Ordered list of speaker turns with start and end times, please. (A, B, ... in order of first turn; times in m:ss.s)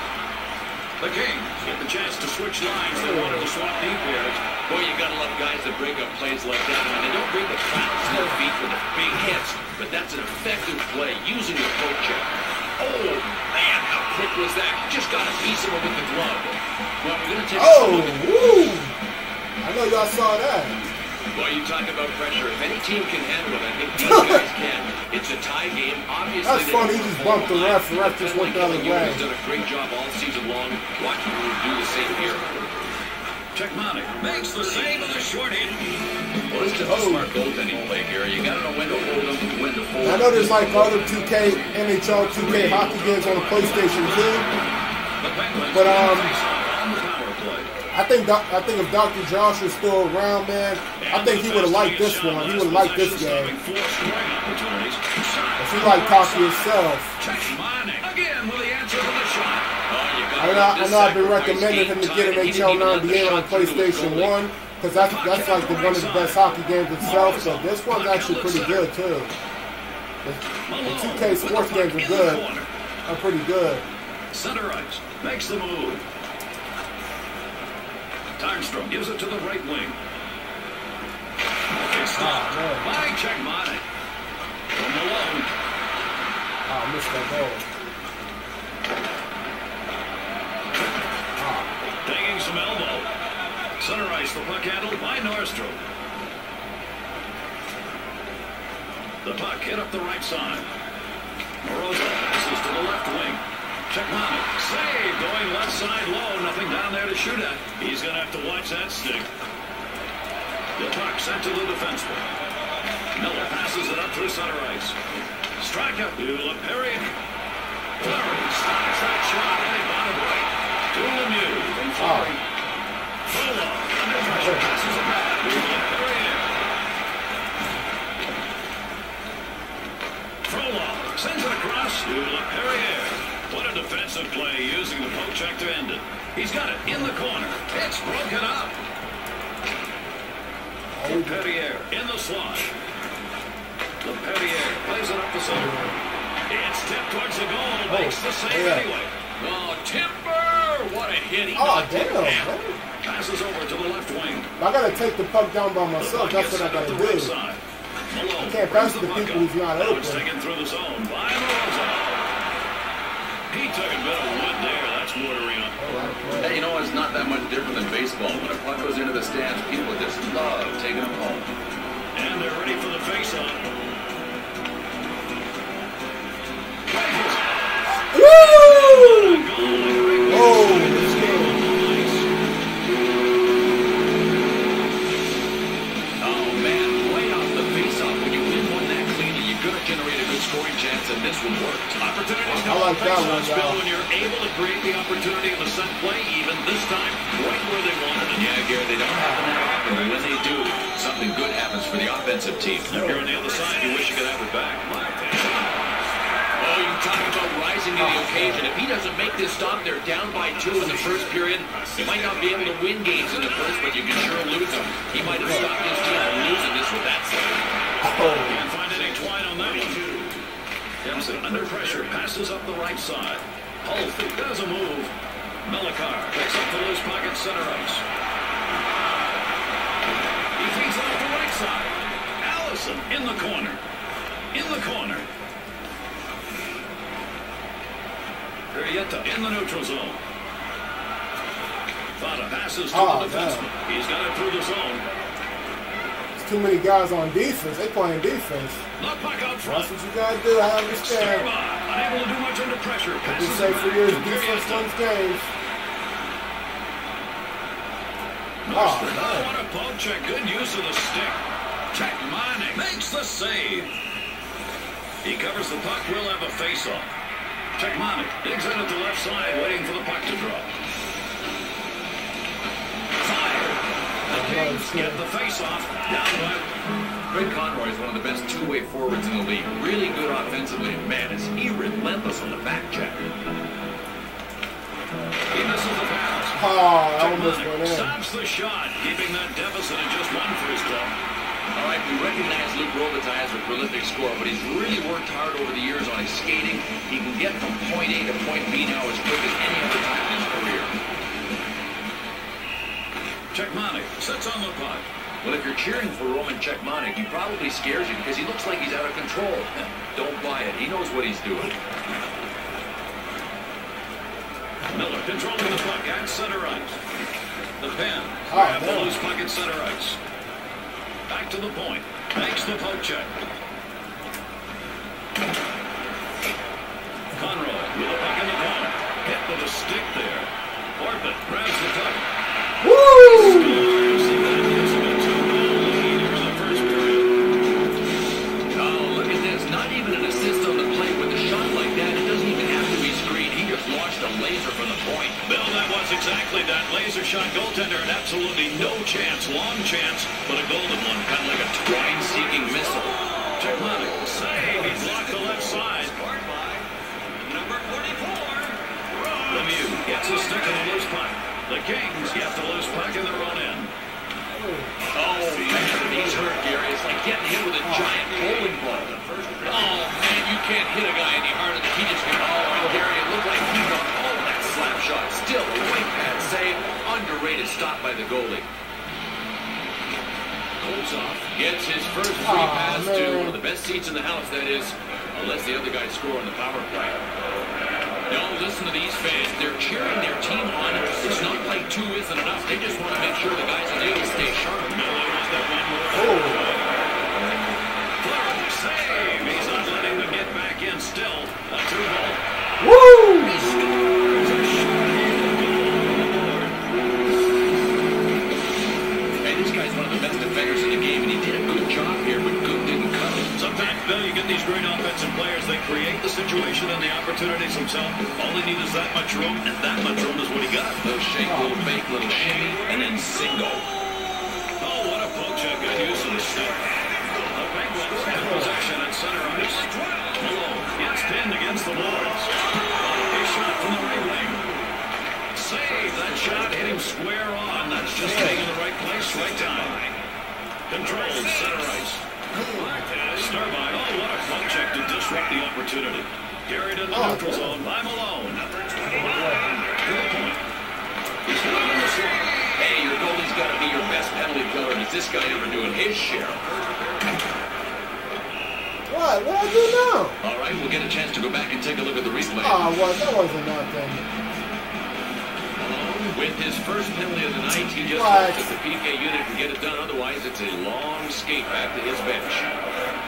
0:01.0-0:04.4 A
0:02.9-0:03.5 B
0:04.6-0:18.2 C
0:08.1-0:08.4 B
0:17.5-0:18.9 B
0:19.6-0:20.8 B
0:21.3-0:32.6 C
0:24.0-0:24.5 B
0:26.4-0:29.2 B
0:33.5-0:35.8 A
0:36.5-0:40.7 C
0:36.8-0:37.3 B
0:40.0-0:44.5 B
0:42.3-0:44.5 A
0:45.2-0:47.7 A
0:45.7-0:46.4 B
0:47.9-0:53.6 B
0:51.0-0:59.7 A
0:55.6-0:57.2 B
0:59.9-1:04.4 C
1:00.4-1:09.4 B
1:05.0-1:06.4 A
1:07.0-1:08.9 A
1:10.2-1:12.4 B
1:10.7-1:12.7 A
1:13.1-1:13.9 B
1:14.3-1:16.0 A
1:18.4-1:20.0 A
1:21.7-1:23.8 A
1:22.2-1:22.9 B
1:24.8-1:25.5 A
1:26.7-1:27.6 B
1:31.4-1:31.7 B
1:32.0-1:33.1 A
1:33.8-1:35.8 A
1:39.2-1:40.7 A
1:41.6-1:49.3 A
1:50.8-1:52.2 A
1:53.2-1:55.0 A
1:55.6-1:57.1 A
1:58.0-2:02.2 A
2:01.8-2:02.4 C
2:02.0-2:02.3 B
2:03.3-2:06.5 A
2:04.3-2:04.6 B
2:10.5-2:18.8 A
2:16.9-2:17.1 B
2:20.9-2:21.5 B
2:21.1-2:22.7 A
2:24.0-2:26.0 A
2:25.5-2:26.0 B
2:26.5-2:29.1 A
2:27.9-2:28.9 B
2:29.4-2:32.6 C
2:31.6-2:32.8 B
2:33.0-2:34.5 A
2:34.6-2:37.3 B
2:36.0-2:37.6 A
2:38.1-2:42.3 A
2:38.4-2:40.3 B
2:43.5-2:45.8 A
2:45.8-2:46.7 B
2:46.4-2:51.5 C
2:52.1-2:53.6 A
2:56.9-2:57.5 A
2:57.9-2:59.5 B
2:58.2-3:02.3 A
3:00.3-3:01.6 B
3:06.2-3:12.0 C
3:11.9-3:18.3 A
3:12.4-3:13.8 B
3:18.1-3:23.0 C
3:19.2-3:19.5 B
3:22.9-3:25.5 A
3:22.9-3:23.3 B
3:26.6-3:37.6 C
3:28.0-3:28.7 B
3:35.3-3:35.7 B
3:38.0-3:38.7 B
3:38.3-3:40.2 A
3:41.0-3:45.1 A
3:45.6-3:48.0 A
3:50.6-3:53.8 A
3:54.5-3:55.3 A
3:58.7-4:00.2 A
4:02.2-4:05.0 A
4:02.9-4:03.7 B
4:06.4-4:08.9 B
4:09.0-4:09.9 A
4:09.6-4:11.5 B
4:10.8-4:14.9 A
4:13.2-4:15.5 B
4:18.6-4:23.9 A
4:18.7-4:19.6 B
4:25.2-4:27.1 A
4:27.8-4:30.7 A
4:33.2-4:36.7 A
4:34.3-4:35.2 B
4:37.3-4:43.3 C
4:45.5-4:46.6 A
4:46.6-4:48.1 B
4:47.2-4:51.2 A
4:51.8-5:00.9 C
5:03.5-5:05.1 A
5:05.4-5:11.7 C
5:14.9-5:17.0 A
5:17.8-5:20.2 A
5:18.5-5:19.2 B
5:21.3-5:23.3 A
5:27.3-5:32.2 A
5:32.8-5:33.8 B
5:33.2-5:37.3 A
5:38.7-5:45.5 C
5:45.5-5:51.3 A
5:51.2-5:53.2 C
5:53.6-5:56.2 A
5:58.0-5:58.5 A
5:59.1-6:03.9 A
6:04.5-6:05.0 B
6:05.1-6:18.7 C
6:07.8-6:08.3 B
6:12.8-6:13.1 B
6:20.8-6:27.2 C
6:22.4-6:23.6 B
6:28.3-6:34.9 C
6:31.2-6:31.6 A
6:34.9-6:37.1 A
6:36.1-6:36.8 B
6:38.2-6:42.4 A
6:42.8-6:43.7 B
6:43.4-6:46.8 A
6:49.4-6:53.6 C
6:53.6-7:01.0 A
7:01.0-7:03.9 C
7:01.4-7:01.8 B
7:04.8-7:06.9 A
7:07.5-7:14.6 A
7:08.3-7:08.8 B
7:15.5-7:20.0 A
7:18.2-7:18.7 B
7:20.9-7:22.2 A
7:22.5-7:23.2 B
7:22.8-7:28.7 A
7:27.1-7:27.8 B
7:29.0-7:29.8 B
7:29.9-7:30.6 A
7:31.4-7:32.7 A
7:32.8-7:36.7 C
7:39.1-7:40.4 B
7:40.4-7:42.8 C
7:42.6-7:44.2 B
7:45.8-7:52.7 C
7:48.1-7:48.7 B